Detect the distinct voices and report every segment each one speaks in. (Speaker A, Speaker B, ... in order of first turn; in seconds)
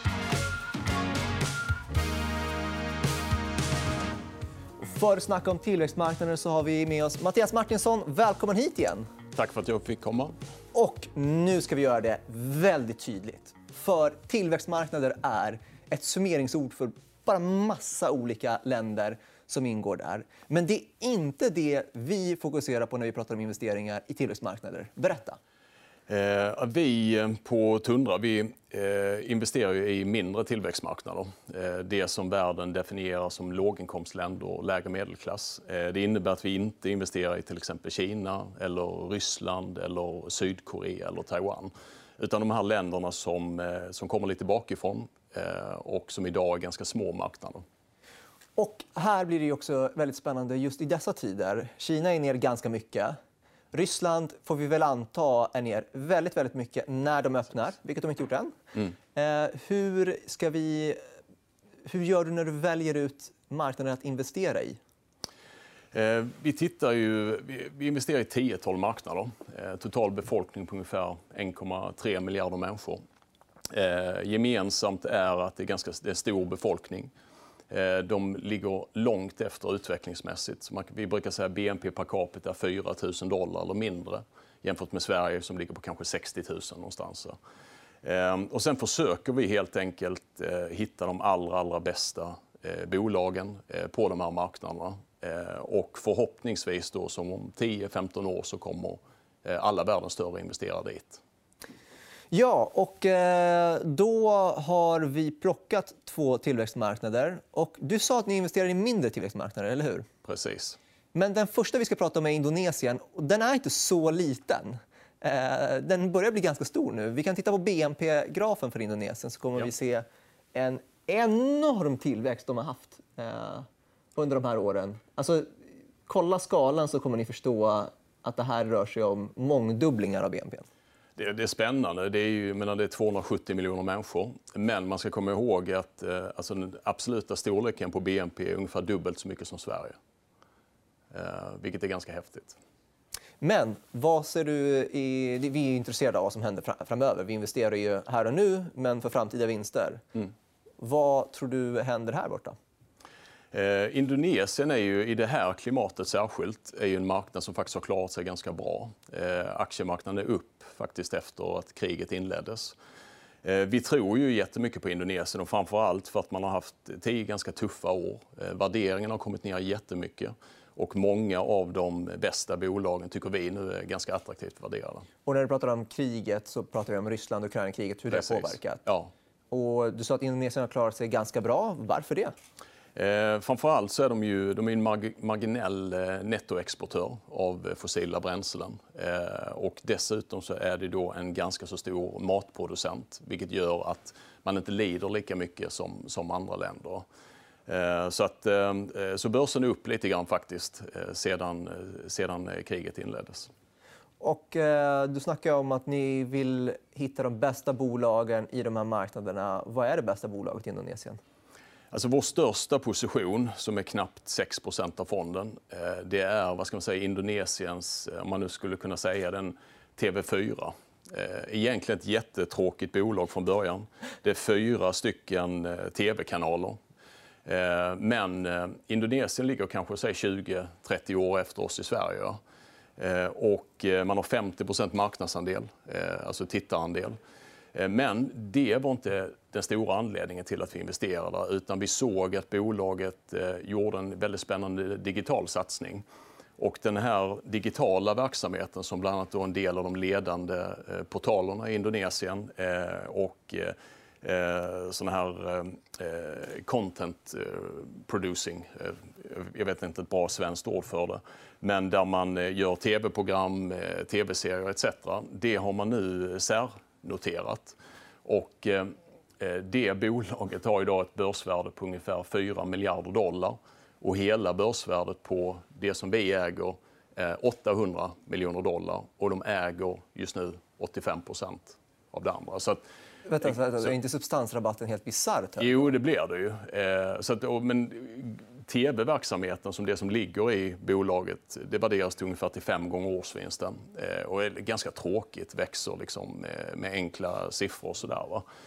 Speaker A: 4.8-9.1, 10.7-25.4, 48.6-53.1, 53.7-58.5, 59.1-61.0, 61.9-64.8, 102.3-110.0, 111.1-125.5, 126.1-130.7, 143.4-150.1, 150.8-152.6, 175.2-178.8, 179.5-182.3, 204.2-211.2, 283.3-285.9
Speaker B: 9.3-10.3, 26.1-47.6, 65.9-73.0, 73.7-77.1, 77.7-87.3, 88.0-101.2, 110.2-110.8, 131.2-139.9, 141.1-142.6, 153.5-162.8, 163.4-175.1, 178.1-179.1, 182.9-197.1, 197.7-203.5, 211.9-226.8, 227.4-232.4, 233.0-237.2, 237.7-246.0, 246.6-282.8, 285.6-298.4